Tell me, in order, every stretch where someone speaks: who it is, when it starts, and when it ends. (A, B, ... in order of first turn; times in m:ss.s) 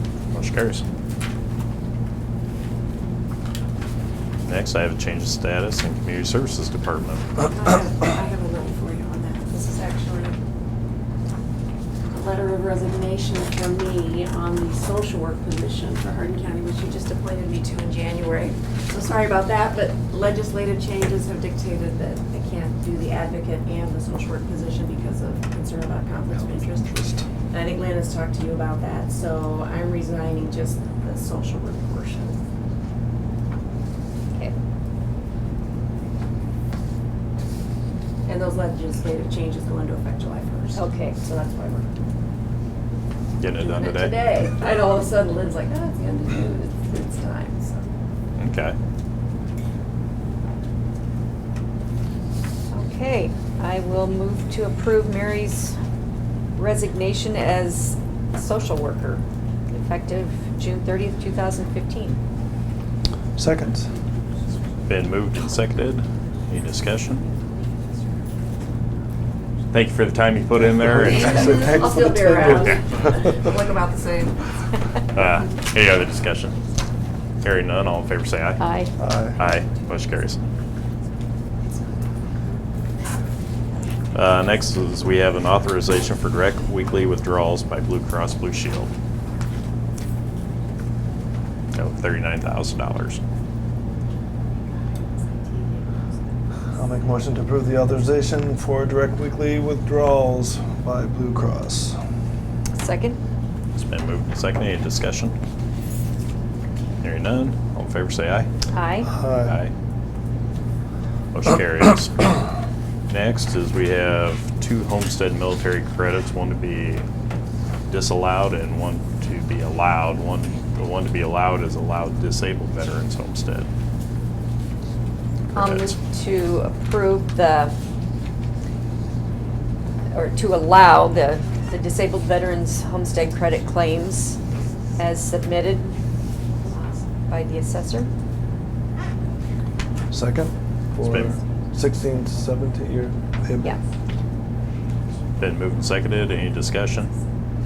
0:00.3-0:00.8 A
0:04.4-0:07.3 A
0:07.4-0:10.4 B
0:12.1-0:27.0 B
0:26.4-0:27.3 C
0:27.5-0:32.4 B
0:38.2-0:41.9 B
0:40.7-0:41.2 D
0:43.4-0:44.1 A
0:43.4-0:47.8 B
0:48.4-0:48.8 A
0:52.7-0:55.8 D
0:56.6-1:02.2 D
1:03.4-1:03.9 C
1:04.8-1:07.2 A
1:09.7-1:11.7 A
1:10.8-1:13.4 C
1:11.2-1:14.5 B
1:15.1-1:16.6 A
1:17.4-1:18.6 A
1:18.6-1:18.9 D
1:19.0-1:19.4 C
1:19.4-1:20.4 A
1:24.1-1:28.9 A
1:31.7-1:33.2 A
1:36.7-1:42.0 C
1:42.7-1:43.2 D
1:43.7-1:45.4 A
1:47.0-1:48.5 A
1:48.7-1:49.1 D
1:49.0-1:49.6 C
1:49.4-1:49.7 A
1:51.3-1:52.4 A
1:53.1-1:57.0 A
1:57.9-2:03.7 A
2:05.5-2:05.9 A
2:05.5-2:07.8 D
2:10.1-2:14.4 D
2:15.0-2:15.9 D
2:16.7-2:18.1 D
2:20.1-2:23.7 C
2:21.0-2:21.3 A
2:25.4-2:27.1 A